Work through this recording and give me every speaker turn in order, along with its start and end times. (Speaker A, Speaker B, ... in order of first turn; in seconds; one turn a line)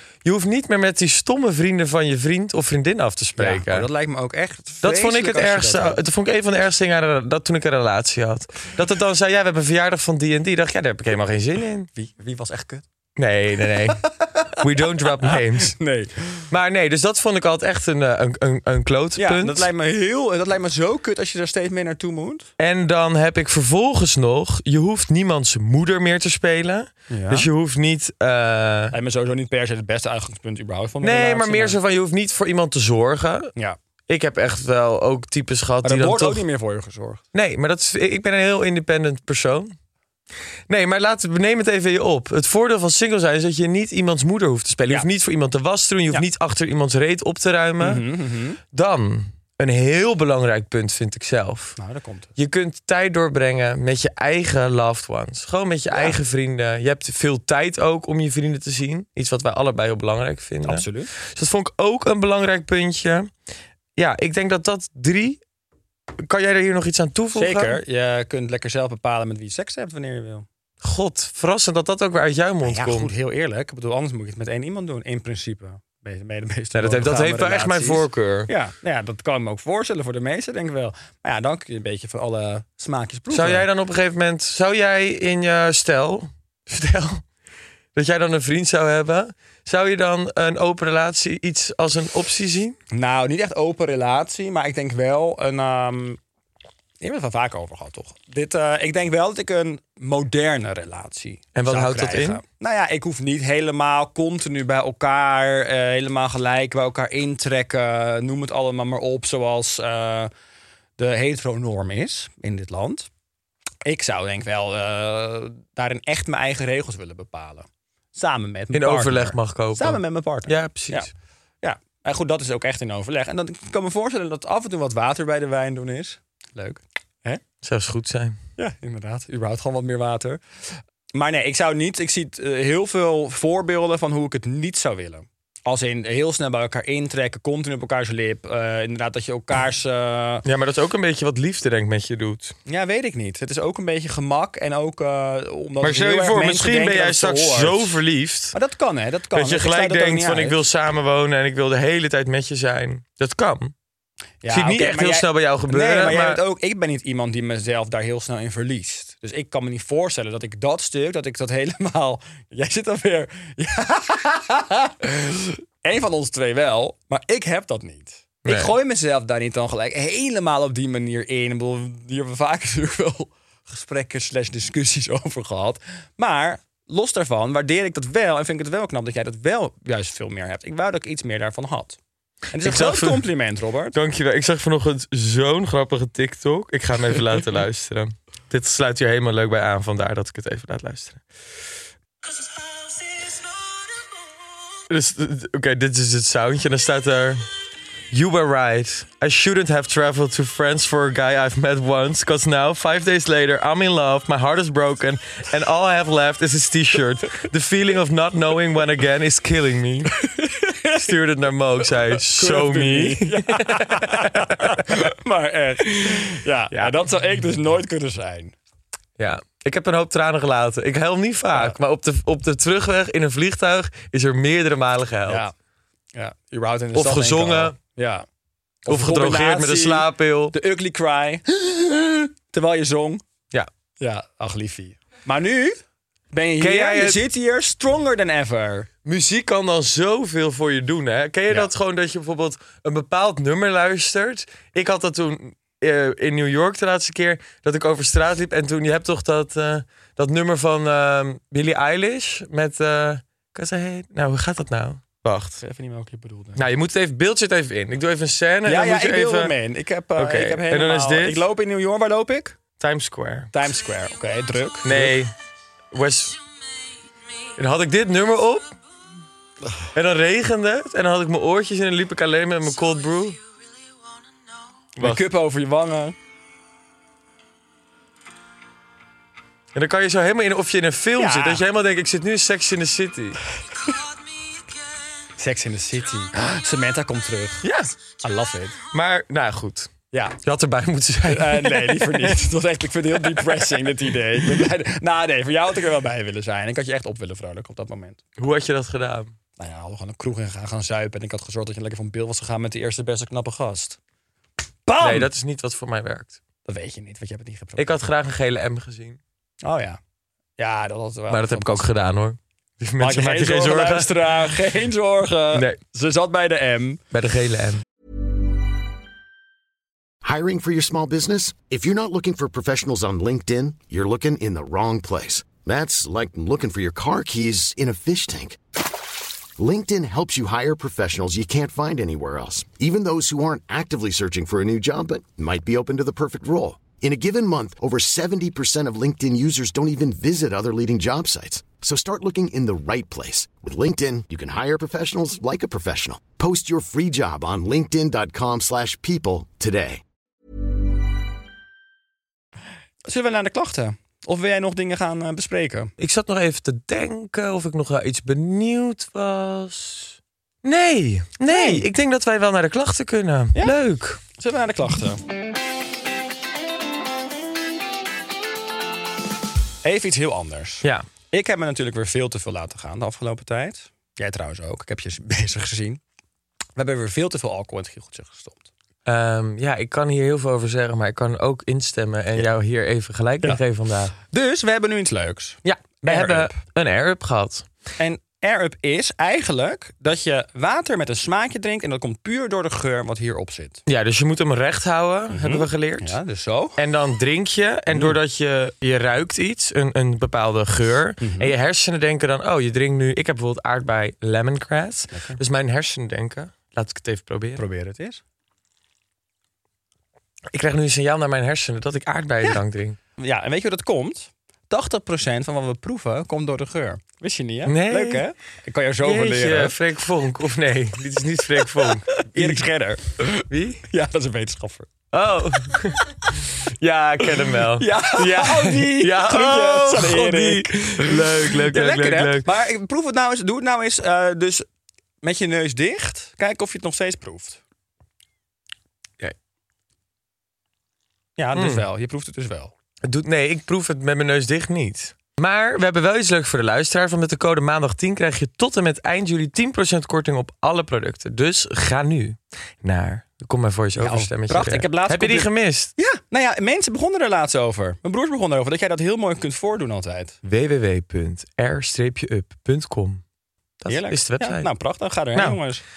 Speaker A: 0.2-3.9
Speaker B: 3.4-6.0
Speaker A: 4.8-11.9
Speaker B: 11.9-12.8
Speaker A: 13.2-14.0
Speaker B: 14.2-14.6
Speaker A: 14.6-15.8
Speaker B: 15.2-16.5
Speaker A: 16.5-19.7
Speaker B: 19.2-22.5
Speaker A: 22.6-29.0
Speaker B: 27.1-27.5
Speaker B: 28.9-31.8
Speaker A: 31.0-33.5
Speaker A: 34.1-36.4
Speaker B: 35.8-37.2
Speaker A: 37.3-39.8
Speaker A: 40.7-48.1
Speaker B: 47.8-48.6
Speaker A: 48.7-51.8
Speaker B: 51.8-52.3
Speaker A: 52.4-63.3
Speaker B: 60.6-61.1
Speaker A: 64.0-65.4
Speaker A: 66.2-67.8
Speaker B: 67.3-70.5
Speaker A: 70.8-73.1
Speaker B: 72.6-83.7
Speaker A: 76.7-78.5
Speaker A: 83.3-87.2
Speaker A: 88.0-92.8
Speaker B: 92.9-96.2
Speaker B: 97.0-110.3
Speaker A: 101.5-102.4
Speaker B: 111.0-113.1
Speaker B: 113.8-121.1
Speaker A: 118.7-121.1
Speaker B: 121.6-127.4
Speaker A: 127.6-128.4
Speaker B: 128.6-130.4
Speaker B: 131.1-140.5
Speaker A: 140.4-142.6
Speaker B: 142.7-148.0
Speaker A: 145.8-148.6
Speaker B: 148.5-150.6
Speaker A: 149.3-153.7
Speaker B: 154.4-182.0
Speaker A: 154.5-156.4
Speaker A: 168.4-168.7
Speaker B: 182.5-184.0
Speaker A: 182.6-183.3
Speaker A: 183.9-191.2
Speaker A: 194.9-197.5
Speaker A: 198.1-210.2
Speaker B: 210.2-211.1
Speaker A: 211.0-215.0
Speaker B: 212.2-218.6
Speaker A: 216.7-217.0
Speaker A: 219.2-225.4
Speaker B: 225.3-225.5
Speaker B: 226.2-228.2
Speaker A: 226.9-227.8
Speaker B: 228.8-233.2
Speaker A: 228.9-230.6
Speaker B: 234.0-235.8
Speaker B: 236.3-238.9
Speaker A: 236.6-237.3
Speaker A: 239.1-255.6
Speaker B: 255.6-256.6
Speaker A: 256.6-259.5
Speaker B: 258.6-262.6
Speaker A: 260.2-261.5
Speaker A: 262.8-263.5
Speaker B: 263.5-265.2
Speaker A: 264.8-265.3
Speaker A: 265.9-266.4
Speaker A: 267.6-268.8
Speaker A: 269.9-273.4
Speaker A: 275.0-275.2
Speaker B: 275.0-276.2
Speaker A: 279.8-283.4
Speaker B: 281.2-281.6
Speaker B: 285.4-288.8
Speaker A: 287.6-287.9
Speaker A: 288.9-289.9
Speaker B: 290.1-290.4
Speaker A: 290.4-292.4
Speaker B: 291.3-298.2
Speaker A: 298.4-299.3
Speaker B: 299.6-304.0
Speaker B: 304.9-305.3
Speaker A: 305.0-306.4
Speaker B: 306.7-307.9
Speaker A: 307.8-309.2
Speaker B: 309.6-310.0
Speaker B: 310.6-311.9
Speaker A: 311.3-314.4
Speaker B: 313.0-317.0
Speaker A: 315.5-315.8
Speaker A: 317.1-317.8
Speaker C: 320.2-328.6
Speaker C: 329.6-350.0
Speaker B: 353.1-355.9
Speaker A: 356.0-364.2
Speaker B: 361.5-361.9
Speaker B: 364.3-365.2
Speaker B: 369.8-376.0
Speaker B: 376.8-378.7
Speaker A: 379.1-384.1
Speaker B: 384.2-386.6
Speaker A: 385.6-387.7
Speaker B: 388.0-393.8
Speaker A: 393.9-396.2
Speaker B: 395.3-396.8
Speaker A: 396.8-407.6
Speaker B: 401.2-401.5
Speaker B: 405.1-405.4
Speaker B: 407.6-408.2
Speaker A: 410.5-413.0
Speaker B: 413.2-419.8
Speaker A: 417.7-418.2
Speaker A: 419.0-422.6
Speaker B: 421.8-424.9
Speaker A: 423.4-423.8
Speaker A: 425.1-432.5
Speaker B: 427.8-434.6
Speaker B: 435.2-437.6
Speaker B: 441.4-442.7
Speaker A: 441.5-441.9
Speaker A: 443.0-455.9
Speaker B: 454.0-460.4
Speaker A: 460.4-463.2
Speaker A: 463.8-464.7
Speaker B: 463.9-465.8
Speaker A: 465.3-465.6